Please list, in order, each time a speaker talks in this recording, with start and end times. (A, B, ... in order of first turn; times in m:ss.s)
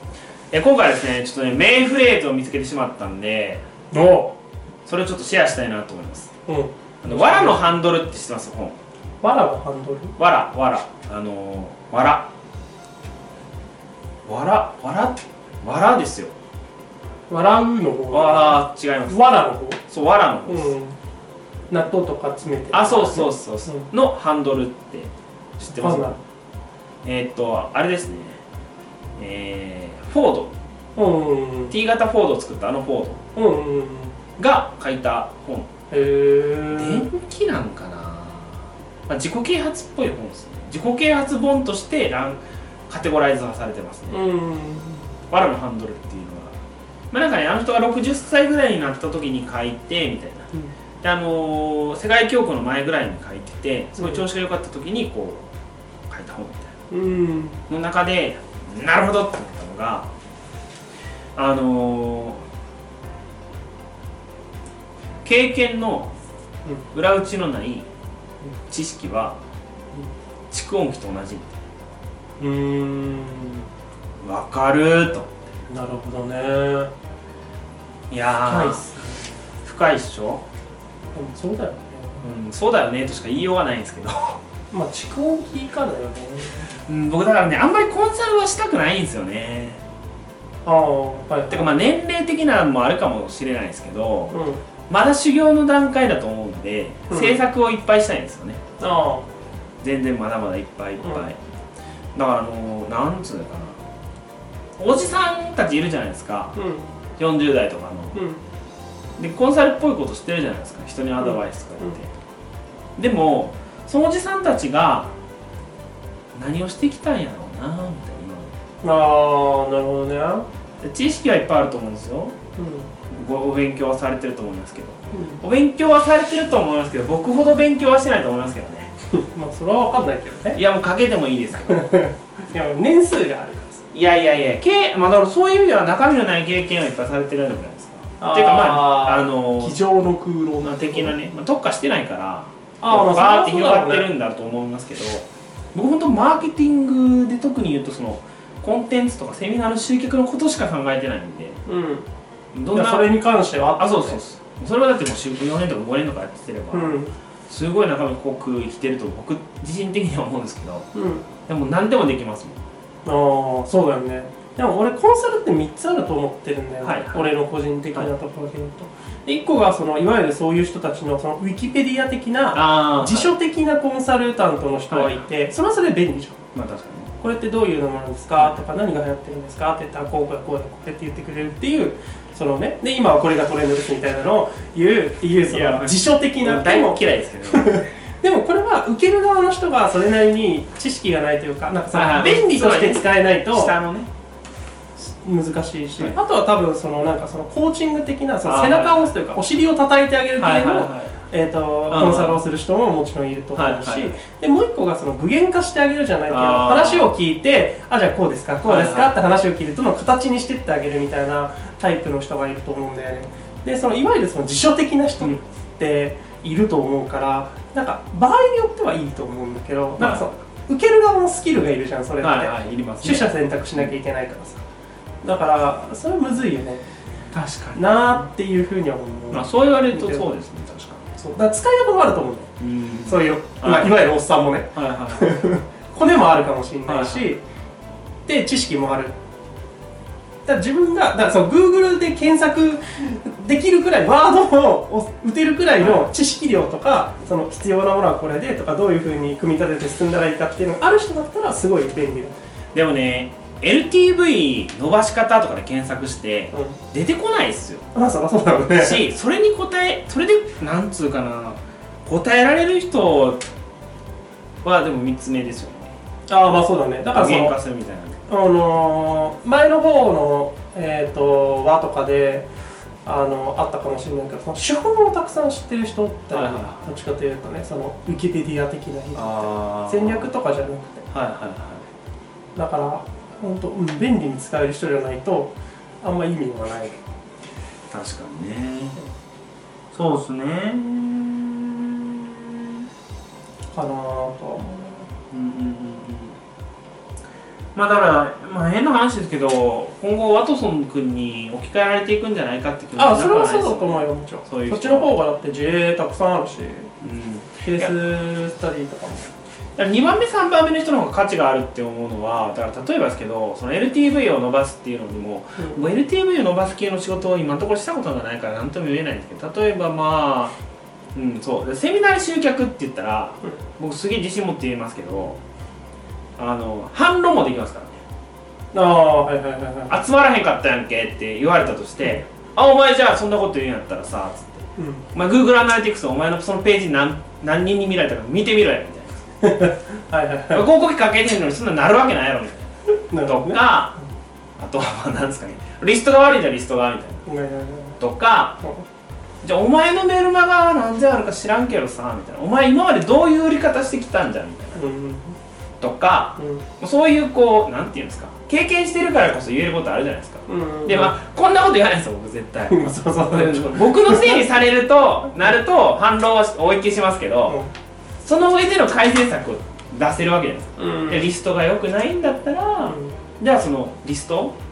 0:00.5-0:03.6 A
0:03.9-0:04.3 B
0:04.8-0:06.3 A
0:06.4-0:07.7 B
0:07.0-0:08.8 A
0:09.2-0:10.1 B
0:10.2-0:12.3 A
0:14.2-0:16.3 A
0:17.3-0:19.8 B
0:18.1-0:19.2 A
0:19.9-0:20.8 A
0:20.5-0:21.0 B
0:21.7-0:23.9 B
0:22.7-0:26.2 A
0:25.7-0:26.2 B
0:27.0-0:28.4 A
0:29.2-0:30.5 A
0:31.0-0:31.7 B
0:31.7-0:33.2 A
0:33.3-0:34.2 B
0:34.4-0:35.7 A
0:35.9-0:37.1 B
0:36.7-0:44.2 A
0:44.1-0:45.1 B
0:45.3-0:46.5 A
0:47.1-0:50.5 A
0:51.0-0:55.5 A
0:54.0-0:54.2 B
0:56.1-0:56.7 A
0:56.9-0:57.6 B
0:57.7-1:00.1 A
1:01.4-1:02.4 A
1:05.2-1:06.1 A
1:06.9-1:07.8 A
1:08.7-1:09.4 A
1:10.5-1:11.6 A
1:12.4-1:13.7 B
1:14.2-1:15.3 A
1:15.7-1:16.9 B
1:18.1-1:18.9 A
1:18.4-1:19.2 B
1:19.6-1:20.4 A
1:21.1-1:22.2 B
1:22.2-1:24.4 A
1:24.7-1:26.7 B
1:26.9-1:29.8 A
1:30.6-1:31.7 B
1:31.5-1:34.4 A
1:34.3-1:34.6 B
1:34.9-1:38.6 A
1:37.1-1:37.4 B
1:38.8-1:39.3 B
1:39.8-1:41.4 A
1:42.1-1:43.8 A
1:44.8-1:46.5 A
1:46.6-1:46.9 B
1:47.2-1:48.2 A
1:48.1-1:48.4 B
1:49.2-1:52.1 A
1:51.2-1:51.9 B
1:53.0-1:55.1 A
1:56.3-1:58.5 A
1:58.8-2:00.5 B
2:00.8-2:02.4 A
2:02.6-2:02.9 B
2:03.1-2:08.9 A
2:05.1-2:05.4 B
2:09.1-2:10.6 B
2:10.5-2:11.9 A
2:11.7-2:13.8 B
2:13.9-2:19.8 A
2:18.2-2:21.1 B
2:20.6-2:31.6 A
2:22.8-2:24.1 B
2:31.6-2:32.1 B
2:32.5-2:33.2 A
2:32.7-2:34.2 B
2:33.7-2:40.9 A
2:36.7-2:37.1 B
2:40.9-2:41.3 B
2:41.5-2:42.6 A
2:43.0-2:56.4 B
2:46.8-2:47.3 A
2:52.5-2:53.3 A
2:54.9-2:55.2 A
2:56.5-2:57.1 A
2:57.2-3:13.7 B
3:05.4-3:07.8 A
3:11.9-3:14.1 A
3:15.0-3:44.6 B
3:18.4-3:19.1 A
3:20.4-3:21.1 A
3:21.9-3:22.4 A
3:23.5-3:24.2 A
3:26.3-3:27.1 A
3:28.6-3:29.1 A
3:40.0-3:40.3 A
3:42.2-3:43.9 A
3:45.2-3:46.8 B
3:47.3-3:48.2 A
3:47.7-3:50.3 B
3:49.3-3:51.1 A
3:51.2-3:52.5 B
3:52.6-3:54.1 A
3:53.0-3:57.4 B
3:54.7-3:55.3 A
3:56.8-3:57.3 A
3:58.2-3:59.1 B
4:00.4-4:12.4 B
4:05.8-4:06.0 A
4:12.7-4:17.8 A
4:16.5-4:16.8 B
4:17.9-4:19.0 B
4:18.8-4:23.4 A
4:24.6-4:25.9 A
4:26.3-4:27.6 B
4:27.0-4:28.2 A
4:28.3-4:32.5 B
4:33.0-4:41.1 B
4:36.3-4:36.9 A
4:39.1-4:40.4 A
4:41.1-4:41.9 A
4:42.5-4:47.0 B
4:47.9-4:49.0 A
4:49.9-4:52.8 A
4:53.7-4:55.0 B
4:55.3-4:56.4 A
4:57.7-5:05.1 A
5:03.0-5:06.9 B
5:07.0-5:07.9 A
5:07.6-5:09.3 B
5:09.8-5:20.5 A
5:21.1-5:25.4 A
5:26.4-5:28.0 A
5:28.7-5:30.0 B
5:29.9-5:39.2 A
5:34.8-5:35.0 B
5:39.4-5:40.6 B
5:40.5-5:44.0 A
5:43.1-5:43.7 B
5:44.6-5:47.2 A
5:47.2-5:48.0 B
5:48.0-5:48.6 A
5:49.4-5:54.8 A
5:54.7-5:55.4 B
5:55.8-6:07.6 A
5:56.4-5:56.6 B
6:00.5-6:01.1 B
6:02.7-6:04.4 B
6:08.2-6:14.6 A
6:10.8-6:11.2 B
6:12.8-6:13.2 B